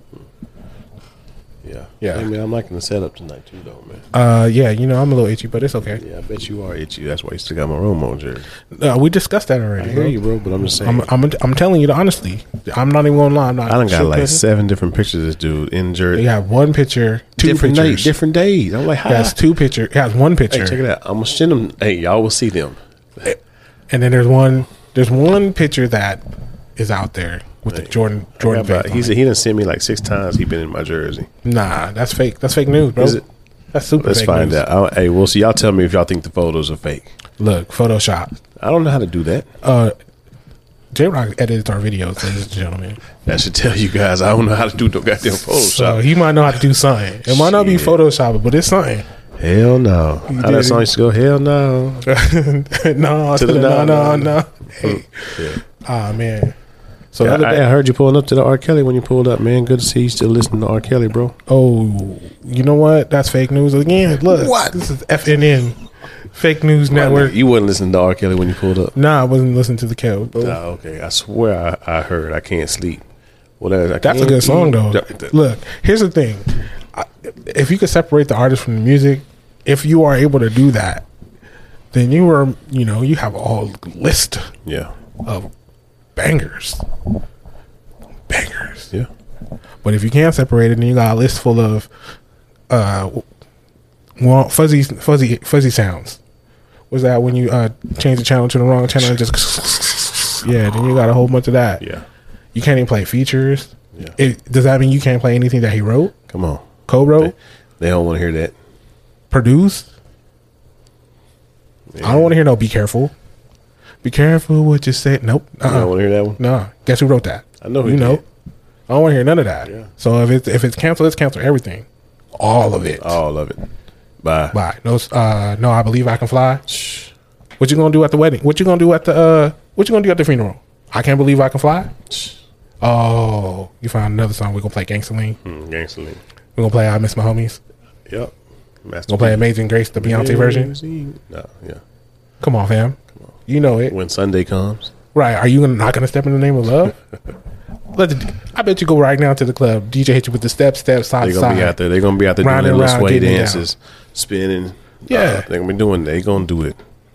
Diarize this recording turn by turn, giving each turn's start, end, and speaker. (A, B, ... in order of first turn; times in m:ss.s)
0:01.6-0:04.0 A
0:02.0-0:02.3 B
0:04.1-0:06.0 B
0:06.0-0:08.5 A
0:08.7-0:10.2 B
0:09.8-0:11.1 A
0:10.8-0:14.4 B
0:13.7-0:16.3 A
0:16.1-0:18.1 B
0:17.4-0:19.4 A
0:19.0-0:20.8 B
0:20.5-0:22.8 A
0:23.9-0:26.2 B
0:26.8-0:29.1 B
0:27.7-0:31.3 A
0:31.4-0:33.2 B
0:33.0-0:33.2 A
0:33.7-0:34.6 B
0:34.0-0:37.1 A
0:37.4-0:38.3 B
0:38.6-0:39.5 A
0:39.6-0:39.9 B
0:40.9-0:43.0 B
0:43.2-0:46.0 A
0:45.4-0:49.0 B
0:47.2-0:48.0 A
0:49.4-0:52.0 A
0:50.3-0:50.9 B
0:52.0-0:56.5 B
0:53.4-0:55.6 A
0:57.1-0:57.6 B
0:57.2-1:01.3 A
1:01.5-1:05.8 B
1:04.2-1:04.8 A
1:06.3-1:07.3 B
1:06.9-1:09.0 A
1:08.9-1:10.6 B
1:10.4-1:13.0 A
1:13.6-1:15.2 A
1:14.0-1:21.0 B
1:21.9-1:24.5 B
1:24.6-1:24.9 A
1:25.2-1:25.5 B
1:26.2-1:26.8 B
1:28.3-1:28.9 B
1:29.8-1:31.9 B
1:32.7-1:33.2 B
1:34.2-1:36.2 B
1:36.9-1:41.8 B
1:41.8-1:42.0 A
1:42.5-1:46.1 B
1:46.3-1:46.7 A
1:46.9-1:47.3 B
1:47.2-1:48.5 A
1:49.3-1:49.9 B
1:51.9-1:52.3 A
1:52.0-1:53.1 B
1:54.0-1:58.2 B
1:55.6-1:56.4 A
1:57.6-1:58.2 A
1:58.9-2:01.8 B
2:02.4-2:03.2 B
2:03.0-2:03.6 A
2:04.2-2:04.6 A
2:04.5-2:06.6 B
2:06.7-2:07.1 A
2:07.6-2:11.9 B
2:12.1-2:12.4 A
2:12.8-2:15.4 B
2:15.4-2:16.2 A
2:16.6-2:17.6 B
2:18.1-2:21.8 A
2:19.1-2:20.8 B
2:22.4-2:24.0 B
2:23.9-2:24.9 A
2:25.1-2:27.0 B
2:27.9-2:31.8 B
2:31.2-2:36.8 A
2:32.4-2:33.6 B
2:35.1-2:35.5 B